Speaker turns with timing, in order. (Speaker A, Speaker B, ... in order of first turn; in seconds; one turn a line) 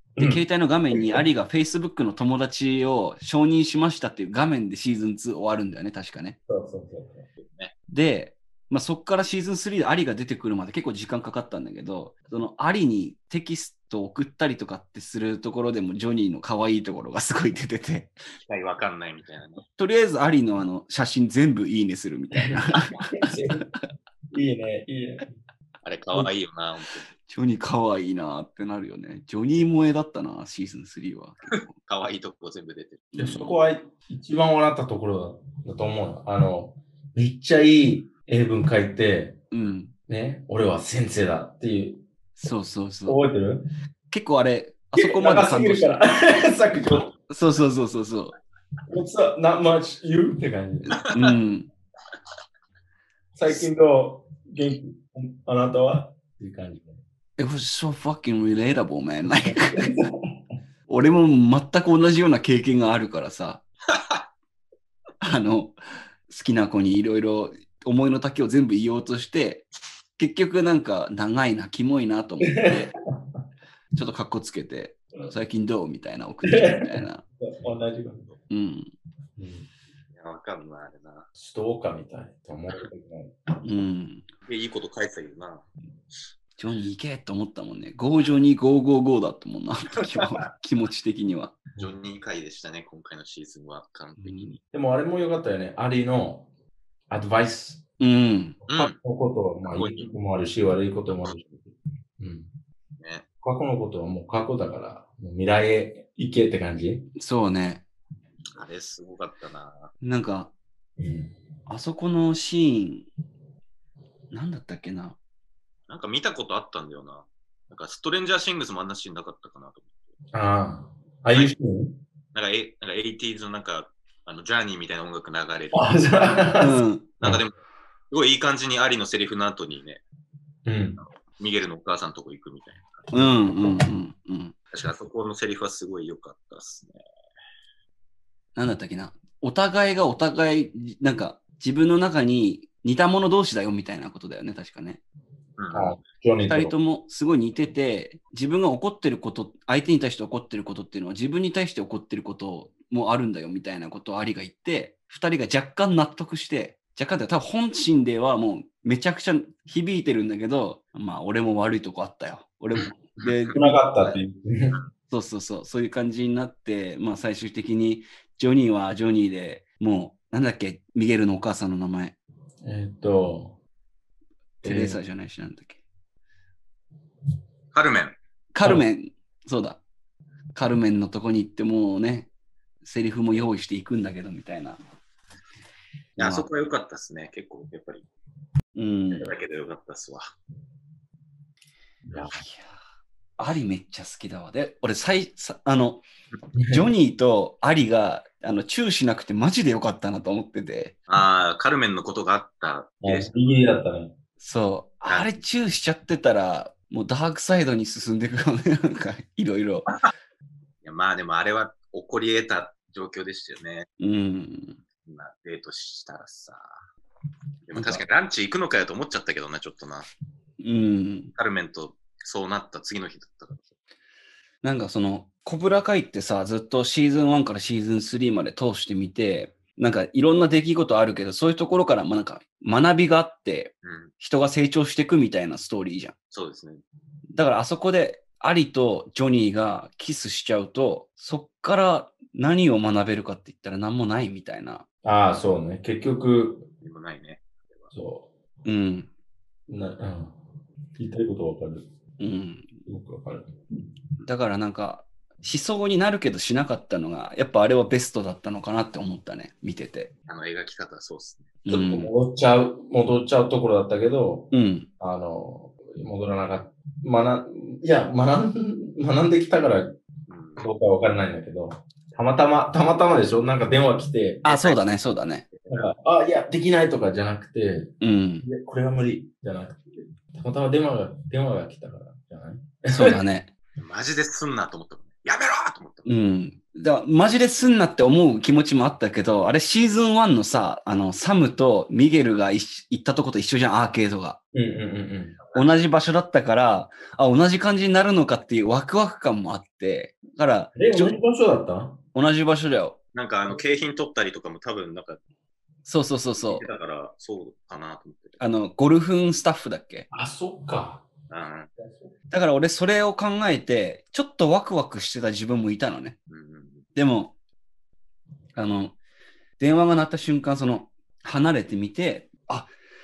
Speaker A: 0.2-1.2
Speaker B: 0.2-6.4
Speaker A: 6.5-7.3
Speaker C: 7.4-7.7
Speaker B: 7.9-18.1
Speaker C: 18.5-19.6
Speaker B: 19.8-23.3
Speaker A: 22.4-23.6
Speaker A: 24.3-25.3
Speaker C: 25.8-27.1
Speaker B: 27.3-31.7
Speaker C: 31.8-33.1
Speaker A: 33.1-39.4
Speaker B: 33.2-33.5
Speaker B: 39.5-39.9
Speaker A: 40.1-42.0
Speaker B: 42.4-43.2
Speaker A: 43.1-43.6
Speaker B: 44.1-46.0
Speaker A: 45.0-47.1
Speaker B: 47.3-48.4
Speaker A: 48.9-51.0
Speaker B: 50.9-51.7
Speaker C: 51.0-51.3
Speaker A: 53.4-57.0
Speaker B: 57.4-60.0
Speaker A: 59.5-60.1
Speaker B: 60.9-63.6
Speaker C: 63.9-64.2
Speaker B: 65.2-65.8
Speaker B: 66.3-69.7
Speaker B: 70.2-72.9
Speaker B: 74.0-77.2
Speaker A: 76.4-78.3
Speaker B: 78.5-78.9
Speaker A: 79.4-79.7
Speaker C: 80.1-81.3
Speaker A: 81.4-83.6
Speaker B: 83.6-84.3
Speaker C: 84.5-85.6
Speaker B: 86.6-91.5
Speaker C: 91.8-94.6
Speaker B: 94.2-94.5
Speaker A: 94.7-96.5
Speaker A: 97.1-97.8
Speaker B: 98.0-98.6
Speaker C: 98.7-99.0
Speaker A: 98.7-102.5
Speaker C: 99.7-100.1
Speaker C: 103.0-103.3
Speaker A: 103.4-107.1
Speaker B: 107.2-107.8
Speaker C: 108.5-109.9
Speaker B: 110.0-110.5
Speaker A: 111.0-111.3
Speaker B: 111.7-113.1
Speaker B: 114.3-115.2
Speaker C: 115.9-119.9
Speaker A: 120.3-122.0
Speaker C: 122.3-125.9
Speaker A: 125.7-127.4
Speaker B: 126.6-127.1
Speaker C: 127.2-127.6
Speaker C: 128.1-130.0
Speaker A: 130.7-131.0
Speaker C: 131.0-133.1
Speaker B: 133.1-134.6
Speaker C: 134.7-137.0
Speaker B: 138.6-145.0
Speaker C: 145.6-146.0
Speaker A: 145.7-146.8
Speaker B: 146.5-163.8
Speaker C: 163.2-164.2
Speaker A: 163.5-164.8
Speaker B: 165.1-172.2
Speaker A: 172.6-173.6
Speaker A: 174.6-175.0
Speaker B: 174.6-175.8
Speaker C: 177.7-178.2
Speaker B: 178.5-179.8
Speaker B: 180.6-182.3
Speaker B: 182.8-184.8
Speaker B: 186.2-186.5
Speaker C: 186.2-188.1
Speaker B: 188.7-189.3
Speaker C: 189.1-190.2
Speaker A: 192.1-192.3
Speaker B: 192.3-192.8
Speaker B: 193.4-196.0
Speaker B: 196.7-200.9
Speaker C: 201.1-203.4
Speaker A: 203.0-204.1
Speaker B: 204.4-209.9
Speaker C: 205.1-205.4
Speaker C: 210.8-213.9
Speaker B: 214.0-214.8
Speaker C: 215.1-216.7
Speaker C: 217.7-220.1
Speaker B: 217.8-218.0
Speaker B: 220.6-221.3
Speaker C: 221.3-223.8
Speaker B: 224.6-236.1
Speaker C: 233.8-234.1
Speaker C: 236.3-236.8
Speaker B: 237.3-244.8
Speaker A: 245.0-246.7
Speaker C: 246.8-247.9
Speaker A: 247.9-248.3
Speaker B: 248.7-249.1
Speaker A: 249.7-250.3
Speaker A: 251.0-251.9
Speaker B: 252.2-252.8
Speaker A: 252.9-253.5
Speaker B: 254.2-260.1
Speaker C: 260.3-261.5
Speaker B: 261.6-262.1
Speaker A: 261.7-270.0
Speaker B: 264.5-264.9
Speaker C: 270.3-270.7
Speaker A: 270.6-274.5
Speaker C: 274.4-274.8
Speaker B: 274.4-275.4
Speaker C: 275.5-275.8
Speaker A: 275.7-283.2
Speaker B: 278.0-278.5
Speaker B: 282.9-283.5
Speaker C: 283.8-286.1
Speaker B: 286.1-294.4
Speaker A: 294.5-295.4
Speaker C: 295.5-295.8
Speaker B: 295.6-301.1
Speaker A: 300.8-302.0
Speaker B: 302.1-303.0
Speaker C: 303.1-305.2
Speaker B: 305.9-306.7
Speaker C: 306.4-308.4
Speaker B: 308.4-310.1
Speaker A: 310.1-311.1
Speaker C: 311.3-311.7
Speaker A: 311.8-312.1
Speaker B: 312.3-316.2
Speaker C: 316.3-316.9
Speaker B: 316.9-317.3
Speaker B: 318.6-319.0
Speaker B: 319.6-322.7